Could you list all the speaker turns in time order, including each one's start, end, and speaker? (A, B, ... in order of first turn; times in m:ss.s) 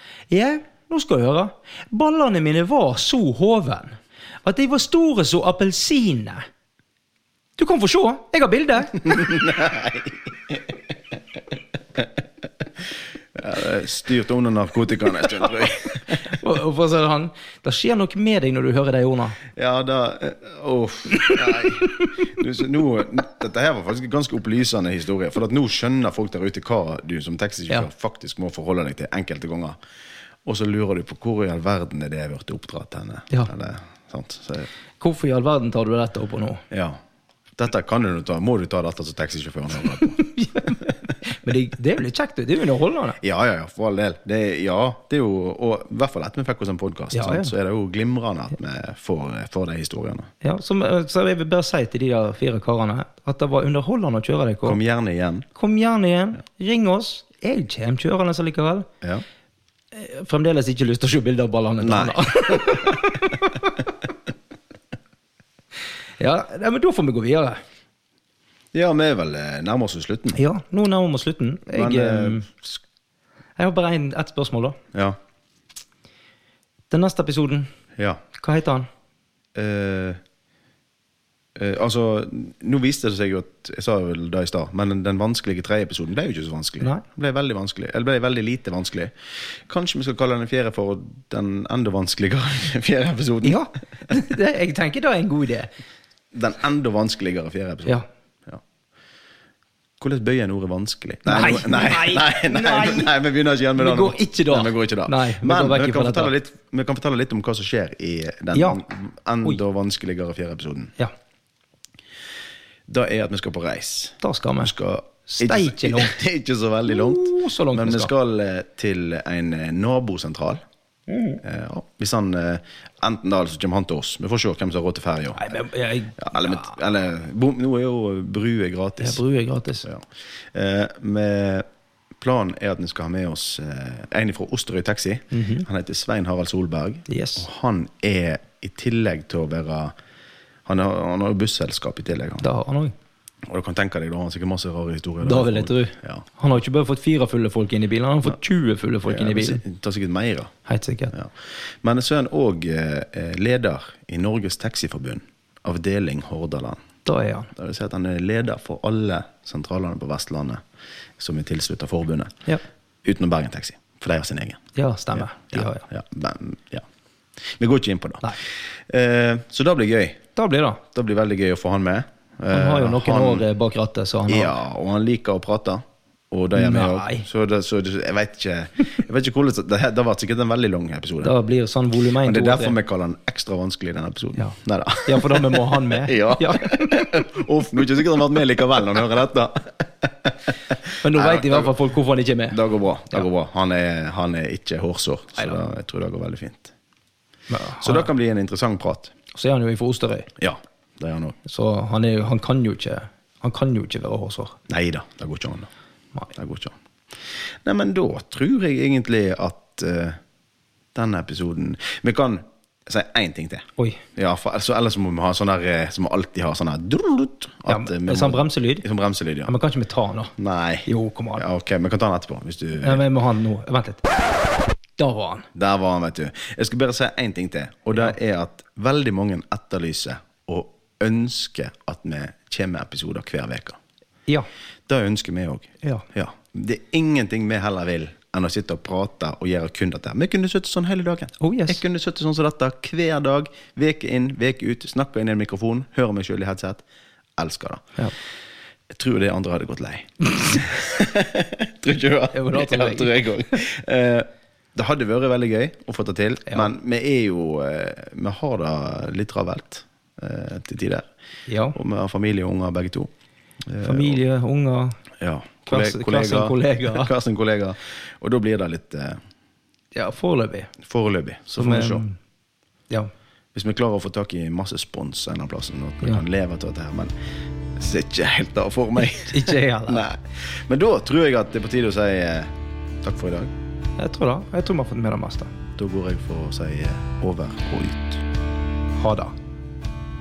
0:00.3-0:06.4 A
0:07.6-0:09.3 A
0:09.0-0:11.4 B
0:13.4-0:16.2 B
0:16.1-0:19.4 A
0:19.5-0:29.8 B
0:30.4-0:34.7 B
0:35.0-0:36.6 A
0:36.7-0:37.0 B
0:37.6-0:40.2 B
0:40.1-0:43.2 A
0:43.2-0:50.3 B
0:47.1-0:47.5 A
0:50.4-0:54.8 A
0:54.7-0:55.5 B
0:55.6-0:58.9 A
0:59.9-1:04.0 A
1:01.8-1:03.0 B
1:06.2-1:07.6 A
1:08.7-1:10.4 B
1:10.3-1:12.5 A
1:11.7-1:12.8 B
1:13.6-1:14.8 A
1:16.9-1:17.7 A
1:18.0-1:18.2 B
1:18.4-1:18.9 A
1:19.6-1:20.2 B
1:21.6-1:33.7 B
1:33.4-1:35.7 A
1:36.3-1:38.6 B
1:40.0-1:51.0 B
1:41.3-1:43.1 A
1:43.8-1:46.3 A
1:48.6-1:48.8 A
1:52.9-2:00.6 B
1:54.2-1:54.7 A
1:55.3-1:56.2 A
1:56.9-1:58.1 A
2:01.1-2:01.4 A
2:01.4-2:05.4 B
2:05.4-2:06.8 A
2:06.2-2:09.2 B
2:09.0-2:09.9 A
2:09.8-2:11.6 B
2:12.2-2:19.9 B
2:15.3-2:15.7 A
2:17.1-2:17.4 A
2:20.7-2:22.5 B
2:22.4-2:22.9 A
2:23.5-2:26.2 B
2:25.2-2:29.6 A
2:29.1-2:30.5 B
2:30.7-2:31.1 A
2:31.1-2:36.8 B
2:37.0-2:37.5 A
2:37.5-2:40.6 B
2:41.2-2:42.3 B
2:43.0-2:44.6 B
2:44.8-2:45.8 A
2:45.1-2:46.9 B
2:47.4-2:50.2 B
2:50.4-2:50.8 A
2:50.9-2:53.4 B
2:52.5-2:54.5 A
2:54.3-3:01.4 B
2:56.6-2:57.3 A
3:01.2-3:02.8 A
3:02.2-3:11.7 B
3:04.4-3:07.1 A
3:11.0-3:12.6 A
3:12.5-3:16.7 B
3:17.5-3:18.1 A
3:17.8-3:19.1 B
3:19.3-3:20.3 A
3:20.4-3:21.4 B
3:21.4-3:24.6 A
3:24.7-3:25.7 B
3:26.3-3:30.2 B
3:31.0-3:39.5 B
3:37.7-3:38.9 A
3:39.5-3:40.3 A
3:40.4-3:43.0 B
3:40.9-3:41.4 A
3:42.8-3:44.0 A
3:45.0-3:45.5 A
3:45.5-3:53.8 B
3:54.9-4:06.8 B
4:01.4-4:01.8 A
4:07.4-4:07.8 B
4:08.9-4:21.1 B
4:12.3-4:13.6 A
4:21.5-4:21.8 A
4:21.7-4:23.1 B
4:23.7-4:24.2 B
4:23.8-4:25.0 A
4:25.2-4:29.2 B
4:25.7-4:27.1 A
4:30.0-4:30.7 A
4:30.8-4:32.0 B
4:31.6-4:32.2 A
4:33.5-4:37.1 B
4:37.8-4:42.5 B
4:39.0-4:40.0 A
4:43.0-4:43.5 B
4:44.0-4:45.5 A
4:45.8-4:48.2 B
4:49.0-4:49.4 A